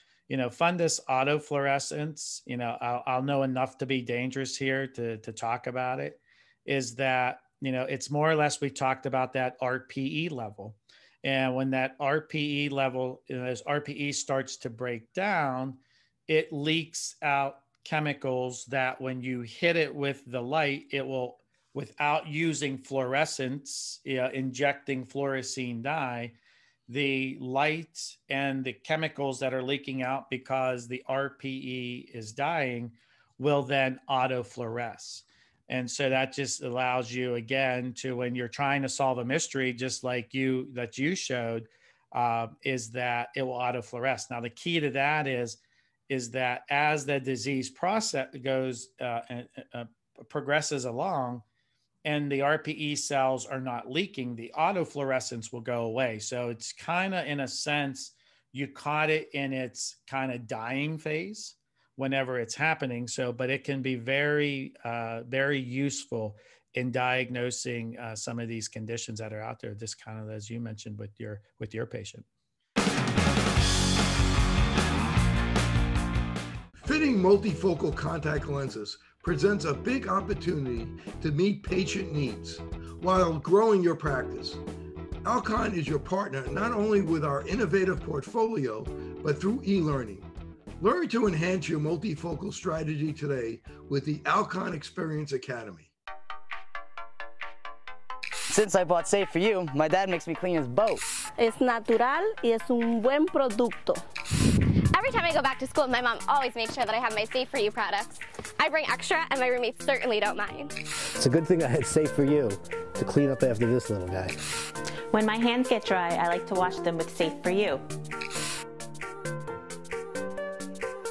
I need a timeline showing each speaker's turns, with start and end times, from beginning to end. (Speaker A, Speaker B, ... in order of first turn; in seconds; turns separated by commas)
Speaker A: 0.3-26.3, Speaker A: 26.9-45.6, Speaker A: 46.1-51.4, Speaker A: 52.0-72.2, Speaker B: 76.8-84.6, Speaker B: 85.2-90.3, Speaker B: 90.8-95.9, Speaker C: 98.5-101.0, Speaker D: 101.4-104.0, Speaker E: 104.9-110.7, Speaker F: 111.1-114.5, Speaker G: 115.1-117.8